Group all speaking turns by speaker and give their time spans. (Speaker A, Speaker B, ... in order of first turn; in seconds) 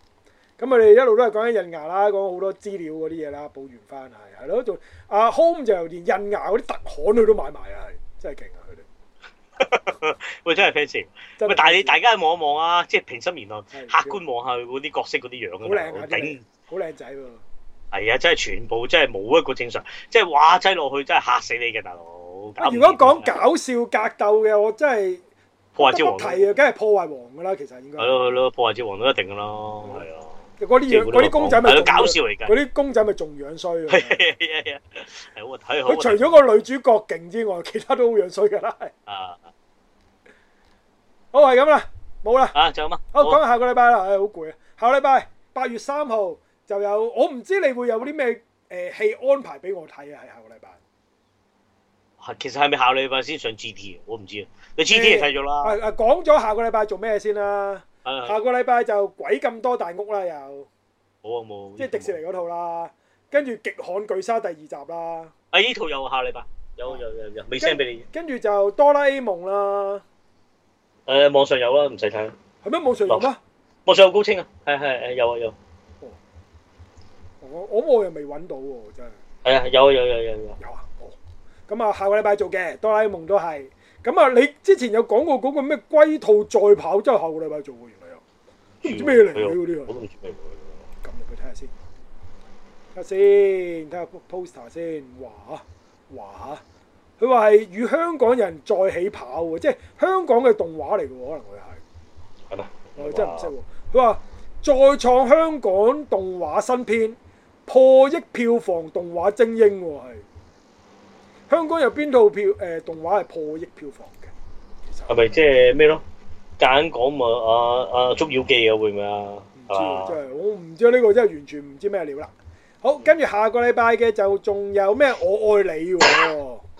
Speaker A: 0.6-8.8, 11.4-12.0, 13.7-14.2, 15.6-17.4, 22.6-25.2, 25.8-28.2, 30.6-34.2, 35.9-38.9, 41.3-42.5, 43.1-50.8, 54.9-60.7, 61.8-65.3, 67.6-70.0, 72.6-73.4, 77.4-79.2, 80.6-81.2, 81.7-88.2, 88.8-89.9, 91.0-91.7, 92.9-96.6, 97.2-101.8, 103.0-110.2, 111.5-114.3, 114.8-115.2, 119.6-126.6
Speaker B: 9.6-16.4, 17.9-23.4, 25.7-26.5, 28.0-32.5, 33.9-36.5, 39.1-39.5, 42.5-43.4, 52.2-55.8, 58.0-58.4, 61.2-62.2, 65.5-68.0, 71.1-72.3, 73.8-75.5, 79.4-80.6, 88.8-90.8, 102.5-103.5, 115.1-116.0, 116.6-120.2